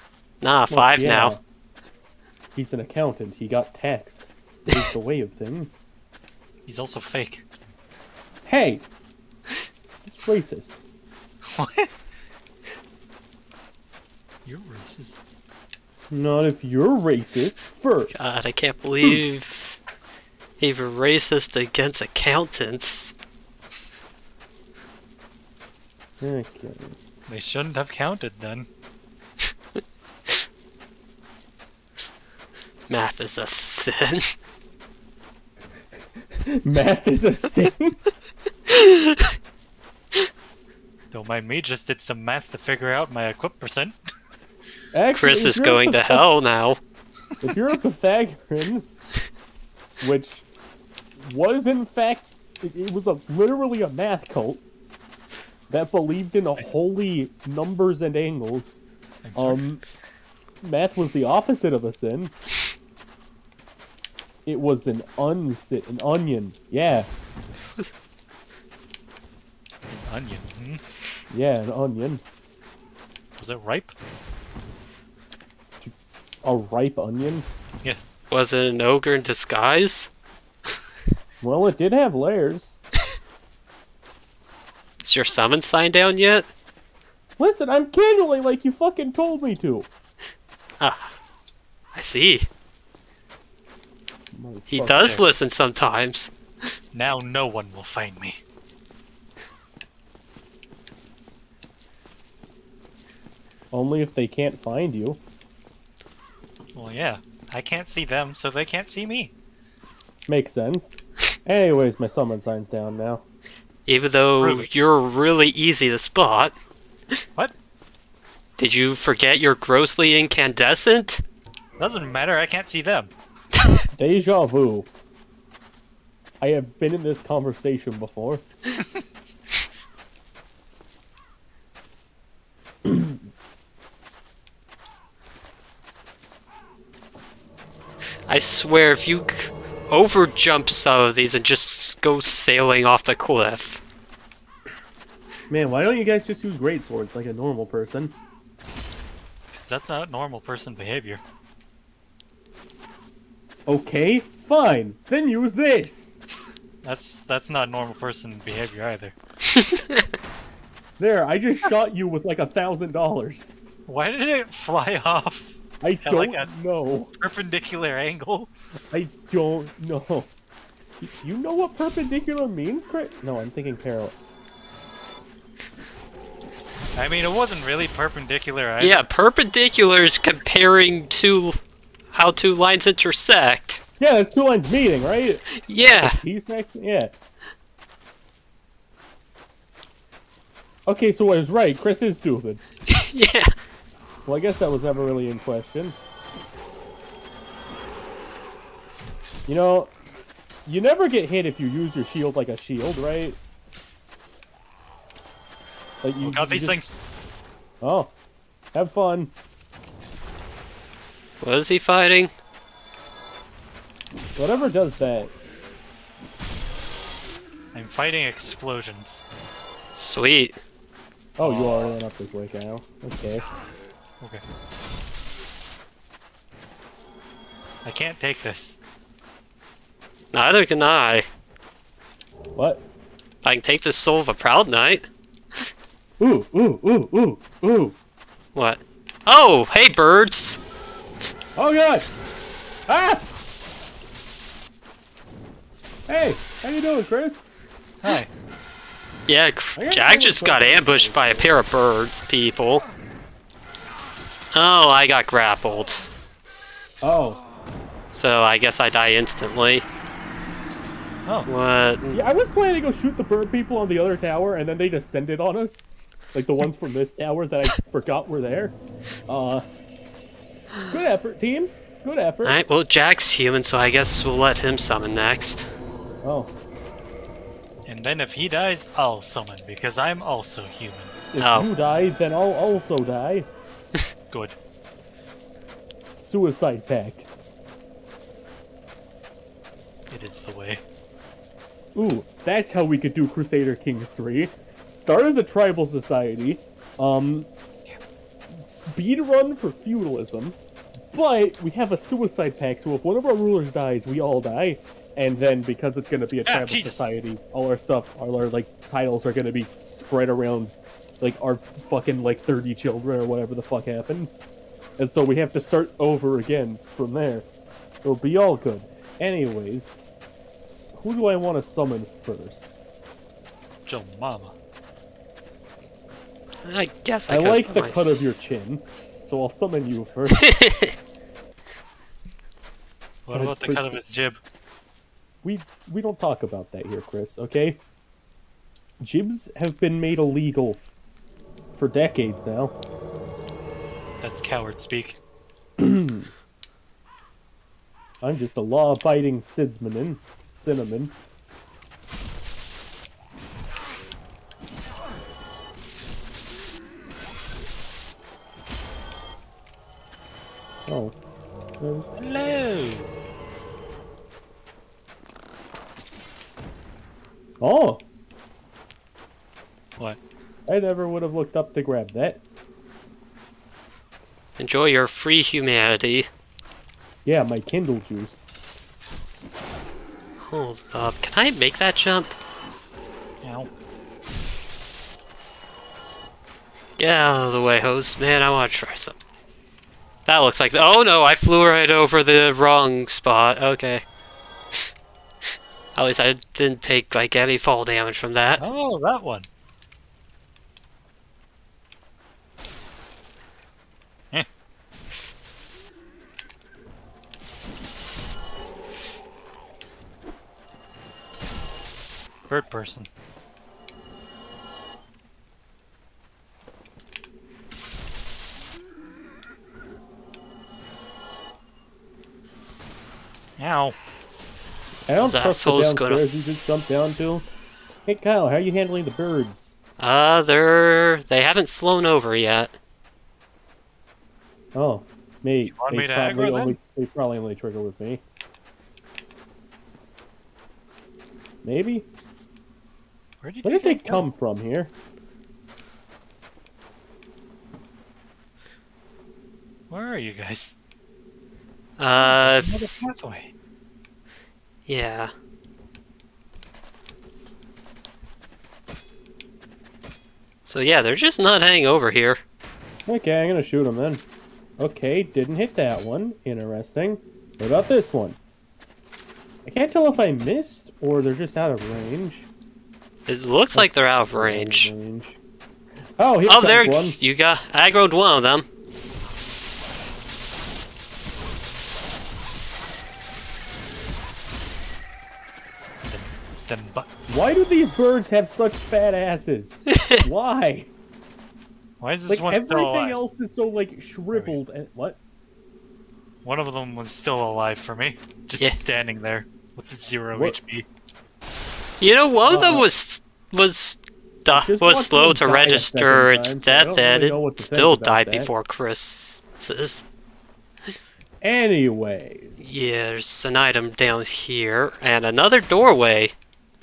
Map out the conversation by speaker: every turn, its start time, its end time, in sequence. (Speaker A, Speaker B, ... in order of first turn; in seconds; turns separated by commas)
Speaker A: 0.4-1.4, Speaker B: 0.7-1.4, Speaker B: 2.5-5.8, Speaker C: 6.7-7.4, Speaker B: 8.5-8.9, Speaker B: 10.1-10.8, Speaker C: 11.5-11.9, Speaker C: 14.4-15.2, Speaker B: 16.1-18.2, Speaker A: 18.1-19.8, Speaker A: 20.6-23.1, Speaker B: 26.2-27.0, Speaker C: 27.3-28.7, Speaker A: 32.9-34.3, Speaker B: 36.3-38.0, Speaker A: 38.7-39.3, Speaker C: 41.1-44.0, Speaker B: 44.9-46.2, Speaker A: 45.2-46.8, Speaker B: 47.4-48.9, Speaker B: 50.0-50.5, Speaker B: 51.2-54.6, Speaker B: 55.7-58.8, Speaker C: 59.2-59.6, Speaker B: 59.4-59.8, Speaker B: 60.6-62.3, Speaker B: 64.5-67.1, Speaker C: 69.9-70.8, Speaker B: 71.3-72.2, Speaker C: 73.4-73.9, Speaker B: 75.8-77.5, Speaker C: 77.8-78.1, Speaker A: 78.3-80.1, Speaker B: 81.4-82.8, Speaker A: 85.0-86.5, Speaker B: 87.4-89.9, Speaker A: 90.8-91.2, Speaker A: 91.9-92.5, Speaker B: 94.3-95.2, Speaker A: 94.7-96.3, Speaker C: 96.9-98.4, Speaker B: 103.7-105.2, Speaker C: 106.8-109.3, Speaker B: 110.3-113.2, Speaker A: 113.9-116.5, Speaker C: 114.4-114.7, Speaker A: 118.6-121.2, Speaker C: 121.8-123.1, Speaker B: 124.0-124.9, Speaker B: 126.4-128.4, Speaker B: 132.8-133.2, Speaker A: 138.3-143.8, Speaker B: 145.5-148.2, Speaker C: 149.5-151.2, Speaker B: 153.7-156.1, Speaker C: 156.8-159.2, Speaker A: 159.5-160.1, Speaker B: 161.0-163.5, Speaker C: 163.9-166.5, Speaker B: 165.8-167.1, Speaker C: 167.2-168.5, Speaker B: 168.9-170.3, Speaker B: 171.0-174.2, Speaker C: 176.9-179.0, Speaker A: 178.8-181.6, Speaker A: 182.1-183.8, Speaker B: 184.0-187.1, Speaker A: 185.6-186.2, Speaker B: 190.9-192.6, Speaker A: 192.9-193.6, Speaker B: 194.2-196.0, Speaker B: 199.5-199.9, Speaker B: 200.7-203.4, Speaker B: 206.0-206.8, Speaker C: 206.2-207.0, Speaker B: 207.8-208.1, Speaker B: 208.7-209.3, Speaker A: 211.4-212.3, Speaker B: 214.4-215.3, Speaker C: 217.7-219.2, Speaker A: 219.9-220.6, Speaker B: 221.4-223.4, Speaker C: 221.4-221.9, Speaker C: 227.8-228.8, Speaker A: 230.3-231.3, Speaker B: 232.6-232.8, Speaker A: 233.4-235.1, Speaker B: 236.2-238.0, Speaker A: 238.6-240.6, Speaker B: 241.6-242.1, Speaker B: 242.9-243.3, Speaker B: 246.1-247.5, Speaker C: 248.0-248.3, Speaker A: 249.3-252.8, Speaker B: 249.8-251.5, Speaker A: 254.5-256.1, Speaker B: 257.0-257.4, Speaker A: 258.1-259.9, Speaker A: 261.5-262.2, Speaker B: 262.1-268.8, Speaker B: 269.3-269.7, Speaker B: 270.9-272.6, Speaker A: 272.4-275.7, Speaker B: 276.2-276.5, Speaker C: 277.9-281.1, Speaker B: 281.3-283.5, Speaker A: 281.4-281.7, Speaker C: 284.3-284.6, Speaker B: 286.2-287.3, Speaker C: 290.1-290.8, Speaker B: 291.9-294.5, Speaker B: 295.1-297.5, Speaker B: 298.5-300.6, Speaker B: 301.1-314.4, Speaker C: 306.5-307.0, Speaker B: 315.0-317.5, Speaker B: 318.0-320.0, Speaker B: 320.9-322.8, Speaker C: 323.9-324.6, Speaker A: 326.6-328.4, Speaker B: 327.3-330.5, Speaker A: 330.4-330.9, Speaker C: 333.3-334.4, Speaker B: 333.3-334.1, Speaker B: 335.4-337.8, Speaker B: 339.0-340.8, Speaker B: 341.7-342.8, Speaker C: 344.2-345.2, Speaker B: 345.8-346.3, Speaker B: 348.2-351.1, Speaker B: 360.9-361.1, Speaker B: 361.8-362.1, Speaker C: 362.2-363.1, Speaker B: 367.6-368.0, Speaker B: 370.7-372.4, Speaker A: 374.6-376.3, Speaker B: 377.2-378.5, Speaker A: 380.4-382.4, Speaker C: 383.4-383.7, Speaker A: 387.0-389.2, Speaker A: 390.3-394.0, Speaker A: 395.9-398.6, Speaker C: 398.6-399.5, Speaker C: 412.5-413.1, Speaker C: 423.6-424.0, Speaker B: 425.1-427.5, Speaker A: 425.2-426.3, Speaker B: 428.1-429.8, Speaker A: 430.0-432.8, Speaker B: 434.8-438.2, Speaker C: 435.7-436.8, Speaker B: 441.6-442.1, Speaker C: 443.4-444.2, Speaker B: 443.6-444.9, Speaker C: 449.9-450.8, Speaker A: 452.0-452.7, Speaker C: 452.2-453.5, Speaker A: 454.9-455.3, Speaker A: 460.7-462.4, Speaker B: 463.1-464.2, Speaker B: 464.8-468.4, Speaker B: 469.6-472.5, Speaker A: 473.3-474.9, Speaker B: 473.7-475.4, Speaker B: 476.2-477.2, Speaker A: 476.4-478.7, Speaker C: 486.1-487.4, Speaker B: 487.3-490.9, Speaker A: 489.9-490.2, Speaker C: 492.0-493.2, Speaker B: 492.3-495.2, Speaker C: 496.4-500.9, Speaker B: 500.3-500.6, Speaker A: 502.0-510.1, Speaker B: 502.5-502.9, Speaker B: 504.5-508.5, Speaker B: 511.4-512.6, Speaker A: 512.6-516.3